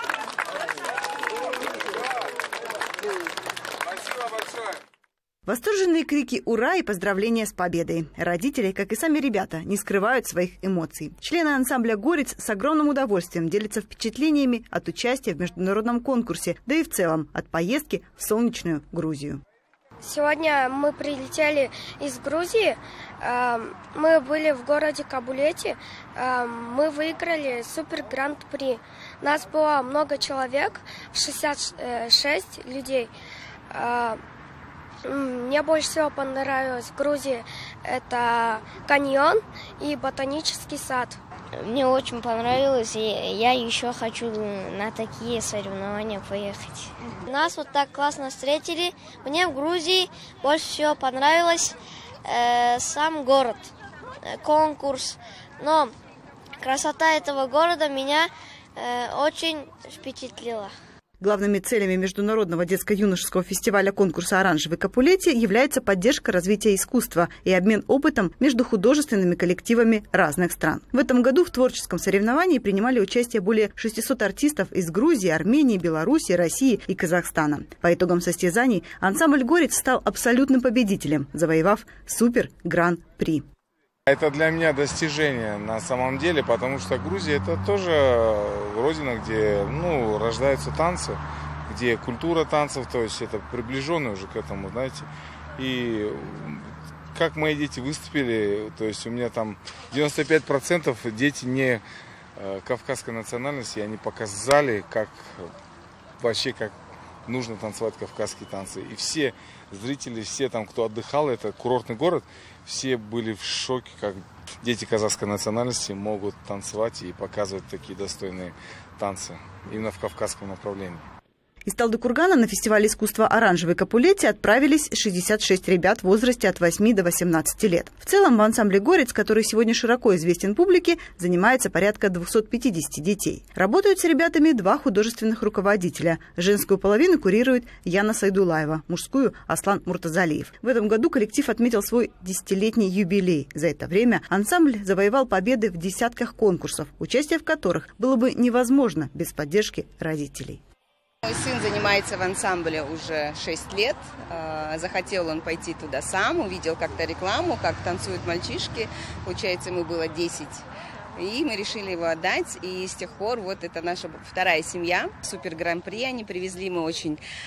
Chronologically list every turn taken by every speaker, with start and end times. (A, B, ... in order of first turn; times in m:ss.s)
0:05.4-0:19.4 A
0:20.0-0:33.1 B
0:33.7-0:34.2 B
0:35.1-0:41.2 B
0:41.6-0:53.7 C
0:54.2-0:55.9 C
0:56.6-1:00.7 C
1:01.2-1:23.4 A
1:24.1-1:41.8 D
1:42.4-1:45.4 D
1:46.2-1:46.7 D
1:47.2-2:01.0 D
2:01.7-2:30.6 A
2:31.2-2:40.6 E
2:41.2-2:47.2 E